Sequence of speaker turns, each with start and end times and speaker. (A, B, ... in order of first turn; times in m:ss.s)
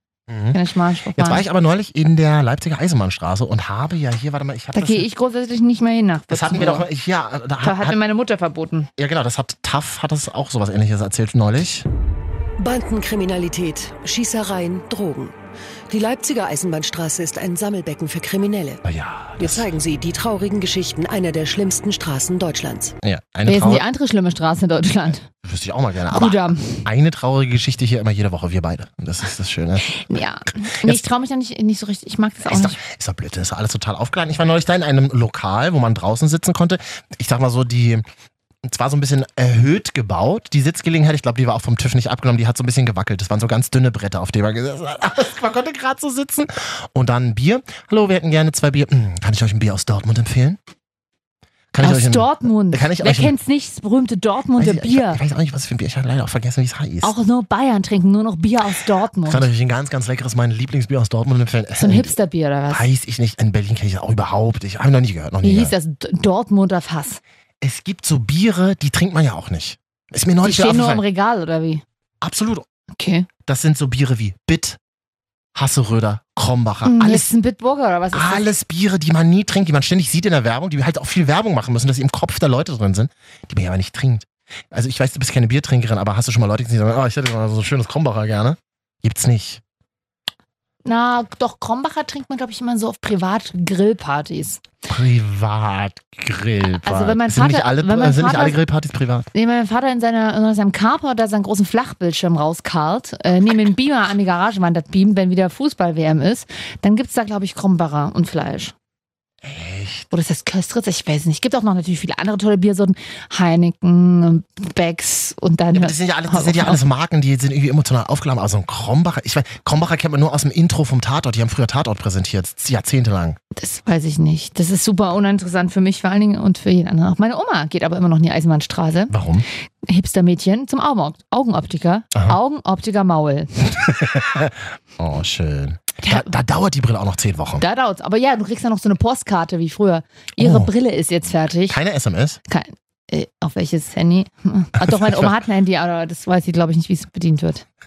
0:00.3-0:00.6 A
0:00.5-0:01.4 B
0:01.1-0:05.1 A
0:04.7-0:06.9 B
0:06.3-0:08.0 A
0:07.6-0:08.9 B
0:09.0-0:11.8 A
0:12.6-0:15.4 C
0:15.9-0:18.8 C
0:18.8-0:19.7 A
0:19.4-0:22.9 C
0:23.0-0:23.8 A
0:23.4-0:25.2 B
0:25.3-0:30.2 A
0:26.1-0:26.8 B
0:29.9-0:32.8 B
0:32.4-0:38.0 A
0:38.6-0:50.6 A
0:51.7-0:53.3 A
0:51.8-0:55.2 B
0:54.6-0:57.1 A
0:57.0-0:59.5 B
0:59.2-1:02.2 A
1:01.8-1:02.9 B
1:02.7-1:05.7 A
1:05.4-1:07.2 B
1:07.6-1:11.0 A
1:10.4-1:11.8 B
1:12.2-1:12.7 A
1:12.9-1:13.3 B
1:13.4-1:14.8 A
1:15.5-1:17.3 A
1:16.8-1:18.4 B
1:18.1-1:29.6 A
1:30.8-1:34.6 B
1:34.9-1:39.3 A
1:36.7-1:38.6 B
1:39.3-1:48.7 B
1:49.4-1:50.0 A
1:50.1-1:56.8 B
1:55.7-2:03.4 A
2:03.5-2:09.2 B
2:09.1-2:09.4 A
2:09.8-2:13.7 B
2:13.8-2:17.6 A
2:16.0-2:16.3 B
2:17.6-2:21.8 B
2:20.4-2:20.7 A
2:21.7-2:22.4 A
2:22.5-2:27.6 B
2:24.8-2:25.3 A